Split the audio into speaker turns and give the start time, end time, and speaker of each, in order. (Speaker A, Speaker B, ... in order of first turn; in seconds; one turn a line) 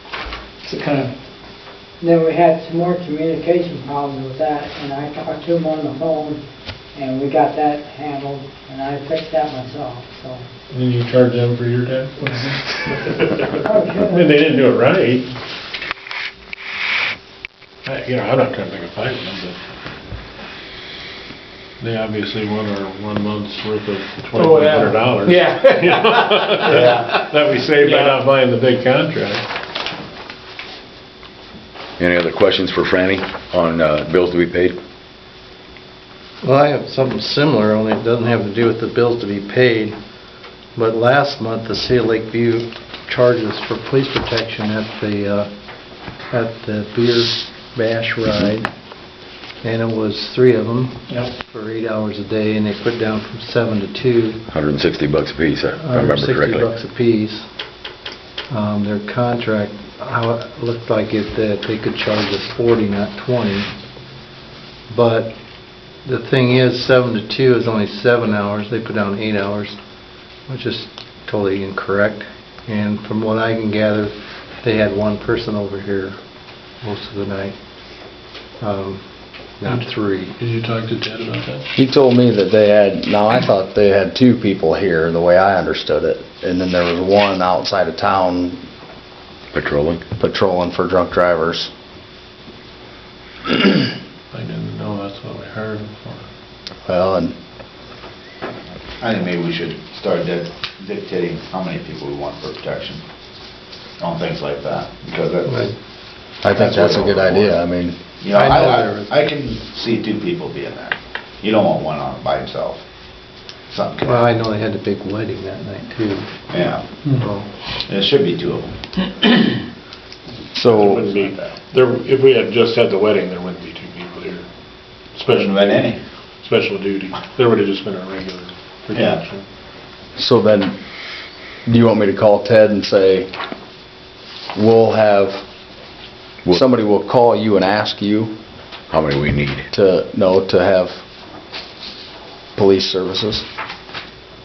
Speaker A: 0.6-1.1
Speaker B: 2.0-6.4
Speaker B: 6.9-10.4
Speaker C: 10.7-12.2
Speaker B: 13.5-14.6
Speaker C: 14.2-15.2
Speaker C: 17.9-19.4
Speaker C: 21.8-29.4
Speaker A: 24.3-28.3
Speaker D: 32.0-34.8
Speaker E: 36.4-40.0
Speaker E: 40.8-45.5
Speaker E: 46.3-48.7
Speaker E: 49.6-54.4
Speaker D: 54.5-56.7
Speaker E: 55.8-57.5
Speaker E: 58.5-63.7
Speaker E: 64.9-65.3
Speaker E: 66.0-69.8
Speaker E: 70.5-76.2
Speaker E: 76.8-77.5
Speaker E: 78.6-79.0
Speaker E: 79.6-80.4
Speaker C: 81.2-81.6
Speaker F: 81.8-88.6
Speaker D: 89.5-90.0
Speaker F: 90.2-91.7
Speaker C: 94.3-96.2
Speaker F: 96.9-97.3
Speaker G: 99.0-103.0
Speaker G: 104.0-105.7
Speaker E: 105.5-105.8
Speaker F: 106.4-108.0
Speaker G: 106.5-107.6
Speaker G: 108.2-112.8
Speaker E: 108.3-109.1
Speaker G: 113.7-114.2
Speaker E: 114.0-116.5
Speaker G: 116.5-116.8
Speaker E: 117.0-117.5
Speaker G: 117.8-119.3
Speaker F: 120.5-121.0
Speaker C: 120.7-124.4
Speaker C: 125.2-125.9
Speaker G: 125.3-126.0
Speaker C: 126.4-129.4
Speaker G: 128.9-129.2
Speaker F: 130.2-130.8
Speaker F: 131.7-133.3
Speaker F: 134.5-135.4
Speaker F: 136.5-138.3
Speaker D: 138.9-139.7
Speaker F: 139.7-141.0
Speaker F: 142.6-143.4